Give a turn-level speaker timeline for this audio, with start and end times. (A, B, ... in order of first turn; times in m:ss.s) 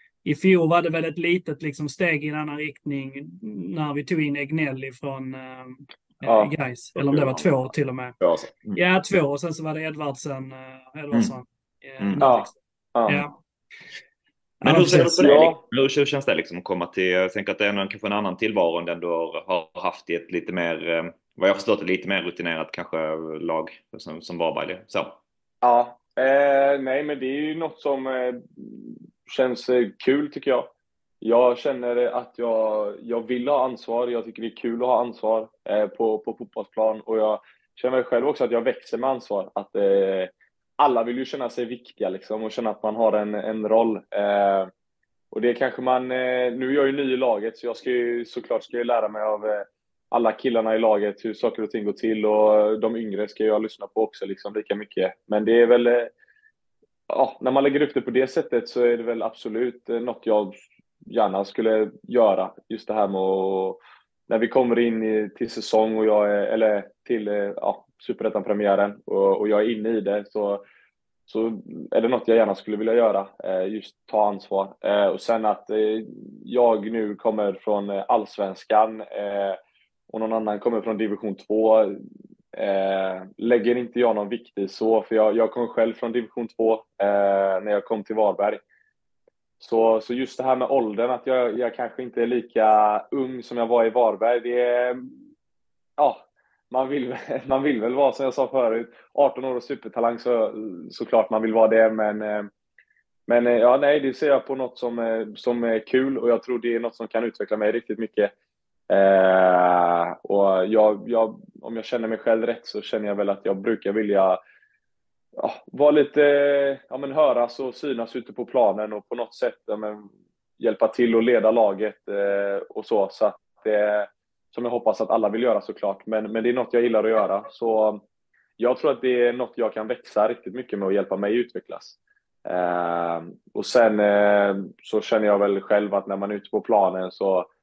0:00.2-0:08.1 A
0:06.2-0:06.5 B
0:06.9-0:07.6 C
0:08.2-0:08.8 C
0:08.7-0:12.5 A
0:12.2-0:13.2 B
0:13.1-0:13.4 A
0:14.6-0:15.4 A
0:14.6-0:25.2 C
0:14.9-0:15.6 B
0:25.6-0:44.7 B
0:45.3-0:56.1 B
0:57.1-1:10.6 B
1:11.3-1:19.6 B
1:20.1-1:22.0 B
1:22.5-1:28.6 B
1:29.6-1:35.1 B
1:36.0-1:42.5 B
1:43.3-1:48.3 B
1:48.9-1:54.4 B
1:55.4-2:08.0 B
2:08.6-2:17.5 B